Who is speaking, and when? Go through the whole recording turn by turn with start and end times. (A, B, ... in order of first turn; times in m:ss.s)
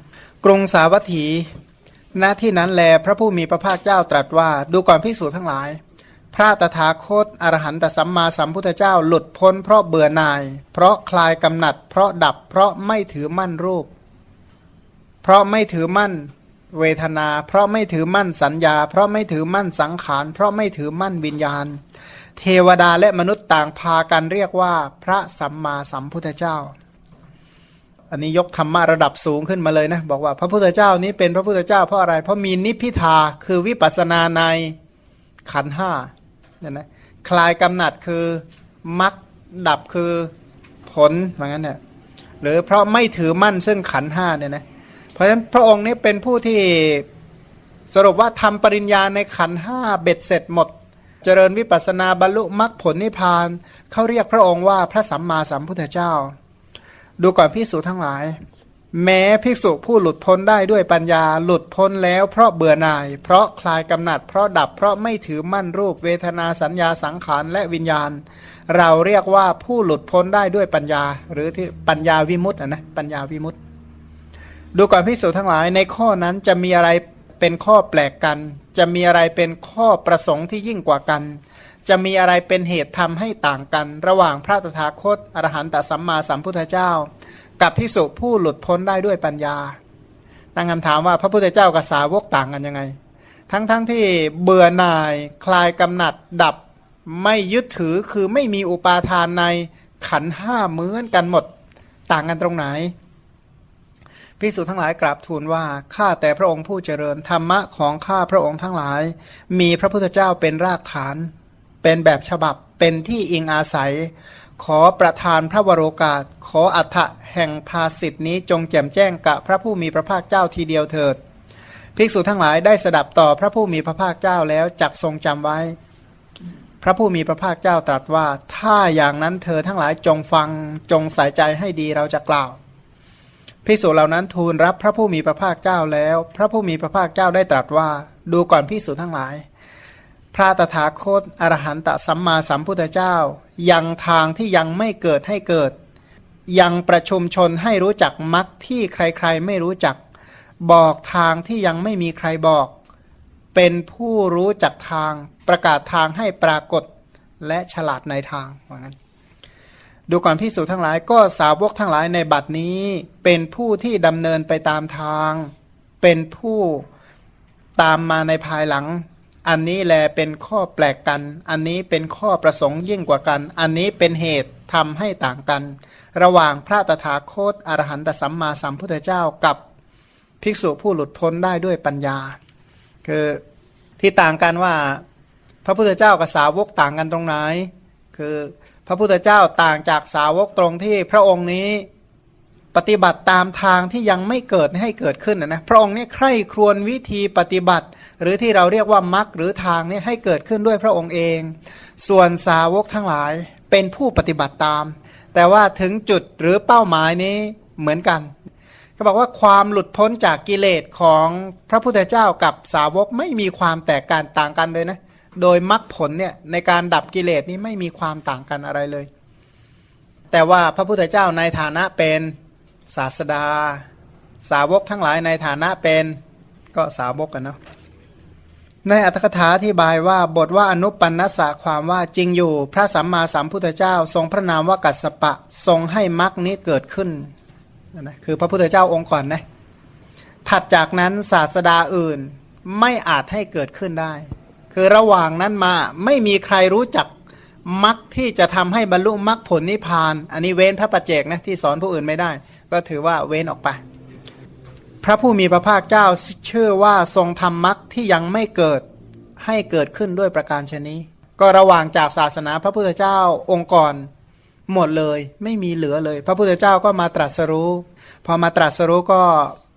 0:00.4-0:01.5 A
0:02.1-0:05.8 A
0:06.3-0:13.9 A
0:15.2-0:21.8 A
0:22.4-0:26.8 A
0:28.1-0:34.8 A
0:35.5-0:40.3 A
0:40.9-0:41.8 A
0:42.4-0:44.6 A
0:45.2-0:47.1 A
0:47.9-0:50.7 A
0:51.2-0:56.4 A
0:57.2-0:58.4 A
0:58.9-1:13.6 A
1:14.8-1:29.8 A
1:30.6-1:33.0 A
1:33.5-1:41.5 A
1:42.1-1:42.9 A
1:44.4-1:51.3 A
1:51.8-2:01.2 A
2:02.0-2:05.8 A
2:06.8-2:12.6 A
2:13.6-2:19.4 A
2:20.3-2:25.7 A
2:26.5-2:30.0 A
2:30.6-2:32.7 A
2:33.5-2:36.9 A
2:37.4-2:39.0 A
2:40.1-2:46.9 A
2:47.8-2:59.6 A
3:00.4-3:02.4 A
3:03.0-3:03.4 A
3:04.0-3:05.0 A
3:05.6-3:11.9 A
3:12.7-3:28.3 A
3:29.0-3:39.1 A
3:40.3-3:42.4 A
3:42.9-3:43.9 A
3:44.4-3:46.2 A
3:46.7-3:47.6 A
3:48.8-3:57.3 A
3:57.9-3:59.4 A
4:00.4-4:07.1 A
4:07.6-4:13.8 A
4:15.0-4:18.8 A
4:19.4-4:24.1 A
4:24.7-4:29.6 A